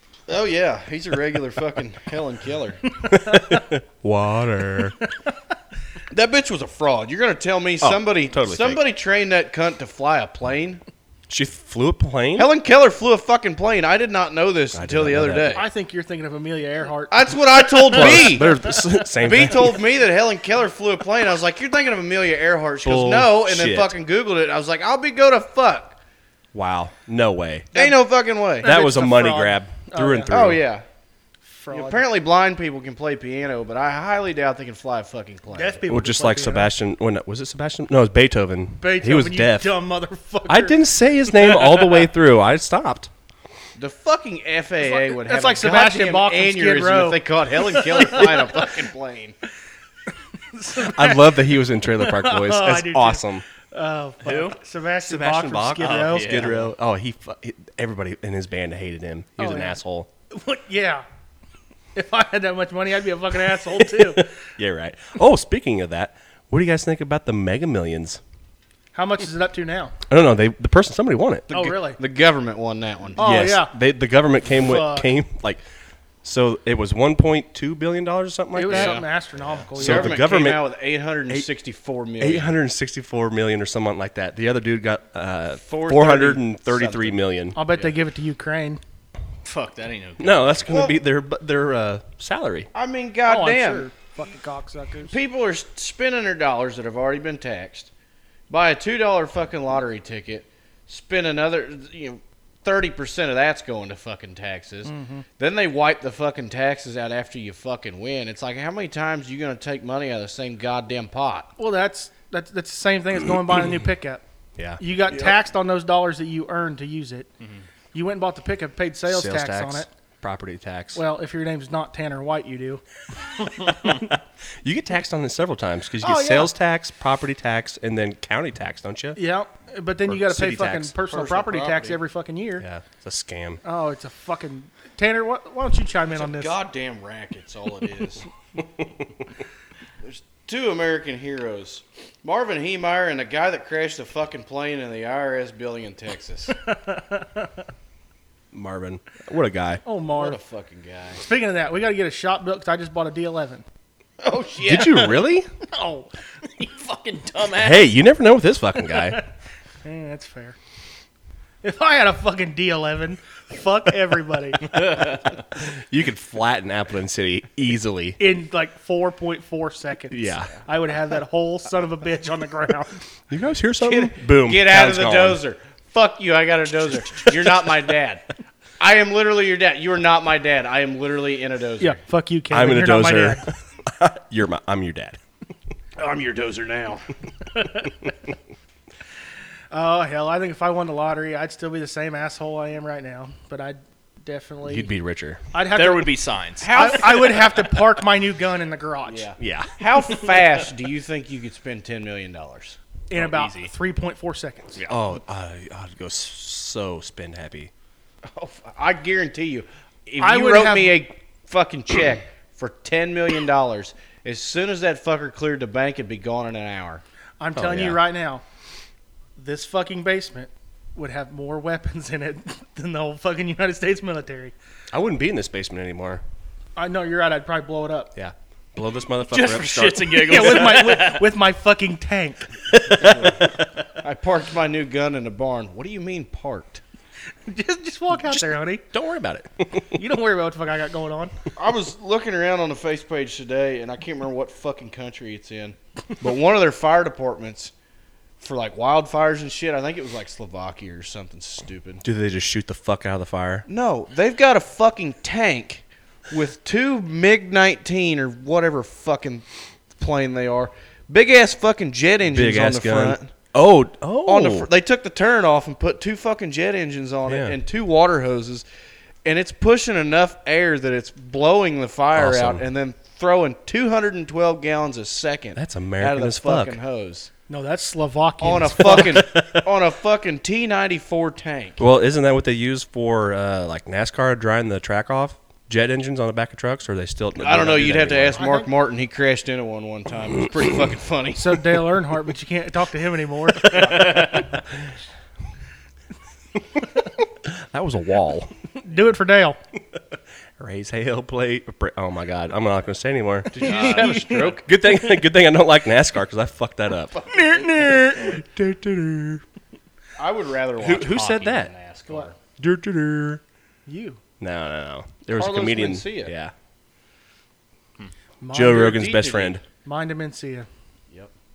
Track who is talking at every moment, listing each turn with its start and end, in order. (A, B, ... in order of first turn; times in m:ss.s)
0:00.3-0:03.0 A
0:03.1-0:05.0 B
0:03.3-0:03.6 C
0:06.1-0:10.8 A
0:07.8-0:08.8 B
0:11.3-0:12.5 B
0:12.4-0:15.7 A
0:14.7-0:15.6 B
0:15.5-0:18.6 C
0:17.1-0:26.0 A
0:17.9-0:19.8 B
0:22.8-0:23.9 B
0:26.5-0:27.8 B
0:27.7-0:28.7 A
0:28.6-0:30.3 C
0:28.6-0:30.7 B
0:30.3-0:30.8 A
0:31.4-0:32.0 C
0:31.7-0:35.8 A
0:35.5-0:36.7 C
0:35.9-0:39.8 B
0:38.8-0:42.0 C
0:40.4-0:43.1 B
0:43.8-0:49.4 A
0:44.8-0:48.6 C
0:50.5-0:56.5 C
0:50.7-0:53.4 B
0:54.2-0:54.6 D
0:55.0-1:00.1 B
0:55.8-0:56.6 D
0:59.4-0:59.8 C
1:00.3-1:01.0 C
1:01.9-1:04.3 C
1:03.5-1:08.2 B
1:08.9-1:09.9 C
1:10.1-1:11.5 B
1:11.5-1:13.2 A
1:11.5-1:12.0 C
1:13.2-1:13.7 C
1:13.2-1:15.6 B
1:14.5-1:15.1 C
1:16.2-1:19.0 B
1:18.5-1:20.2 C
1:18.7-1:19.0 D
1:19.8-1:20.7 B
1:19.8-1:22.5 A
1:22.2-1:27.6 B
1:25.6-1:27.9 A
1:27.5-1:28.8 C
1:29.4-1:30.8 D
1:30.2-1:32.7 B
1:30.7-1:31.0 A
1:32.7-1:33.9 A
1:33.2-1:35.2 C
1:35.0-1:37.9 A
1:38.5-1:51.5 A
1:44.8-1:45.2 C
1:51.6-1:54.2 C
1:54.6-1:54.8 B
1:54.8-1:57.3 C
1:57.9-1:59.9 C
1:59.1-2:01.0 B
2:00.9-2:02.8 C
2:03.7-2:09.2 B
2:06.0-2:06.5 C
2:09.2-2:12.6 C
2:10.1-2:10.9 B
2:11.0-2:12.0 A
2:12.6-2:13.6 B
2:13.6-2:16.5 C
2:16.1-2:18.3 A
2:20.0-2:26.6 A
2:26.5-2:27.5 C
2:28.5-2:29.8 B
2:29.8-2:30.4 C
2:30.1-2:31.2 A
2:31.2-2:33.6 C
2:34.2-2:35.1 A
2:34.6-2:35.5 B
2:34.7-2:35.1 C
2:35.7-2:36.1 C
2:36.6-2:37.9 D
2:37.5-2:39.2 B
2:38.9-2:39.3 C
2:39.8-2:40.6 C
2:41.6-2:44.9 C
2:44.8-2:45.2 D
2:45.6-2:48.2 B
2:48.2-2:53.0 C
2:50.1-2:50.5 B
2:53.3-2:55.4 B
2:53.8-2:58.2 A
2:58.8-3:02.0 A
3:01.8-3:03.4 C
3:02.5-3:05.2 B
3:06.0-3:07.1 A
3:09.7-3:14.9 C
3:14.6-3:15.4 B
3:15.5-3:19.3 C
3:15.7-3:17.4 D
3:16.6-3:17.7 A
3:19.1-3:22.8 A
3:19.4-3:19.8 B
3:23.1-3:24.8 C
3:23.1-3:23.7 D
3:24.9-3:27.7 B
3:28.2-3:37.0 A
3:30.2-3:31.0 C
3:37.4-3:38.4 C
3:37.6-3:38.0 B
3:39.4-3:44.6 C
3:44.9-3:46.2 B
3:46.8-3:48.1 C
3:48.1-3:50.8 B
3:49.3-3:51.3 D
3:50.2-3:52.5 C
3:52.7-3:53.6 B
3:53.0-3:53.4 A
3:54.0-3:56.8 A
3:57.5-3:58.8 C
3:58.1-3:59.9 B
3:59.9-4:01.3 C
4:01.6-4:07.7 A
4:08.4-4:12.0 A
4:12.0-4:13.6 B
4:13.7-4:23.3 A
4:22.2-4:24.7 B
4:24.2-4:28.6 A
4:27.2-4:27.6 B
4:29.2-4:37.3 A
4:32.1-4:32.6 B
4:35.6-4:36.8 B
4:37.5-4:39.2 C
4:38.4-4:41.8 A
4:38.8-4:39.7 B
4:41.8-4:48.4 B
4:47.4-4:51.8 A
4:48.4-4:48.7 C
4:51.4-4:54.3 C
4:53.8-4:54.4 D
4:57.4-4:58.5 B
4:58.8-4:59.6 C
5:00.6-5:09.4 B
5:03.5-5:04.6 A
5:03.6-5:04.4 D
5:03.6-5:04.6 C
5:07.2-5:08.4 C
5:10.2-5:12.4 A
5:10.8-5:11.7 B
5:12.6-5:13.4 B
5:13.9-5:14.2 C
5:14.4-5:16.5 B
5:15.3-5:16.3 A
5:18.4-5:18.9 C
5:18.5-5:19.6 B
5:18.6-5:19.6 A
5:19.8-5:20.7 C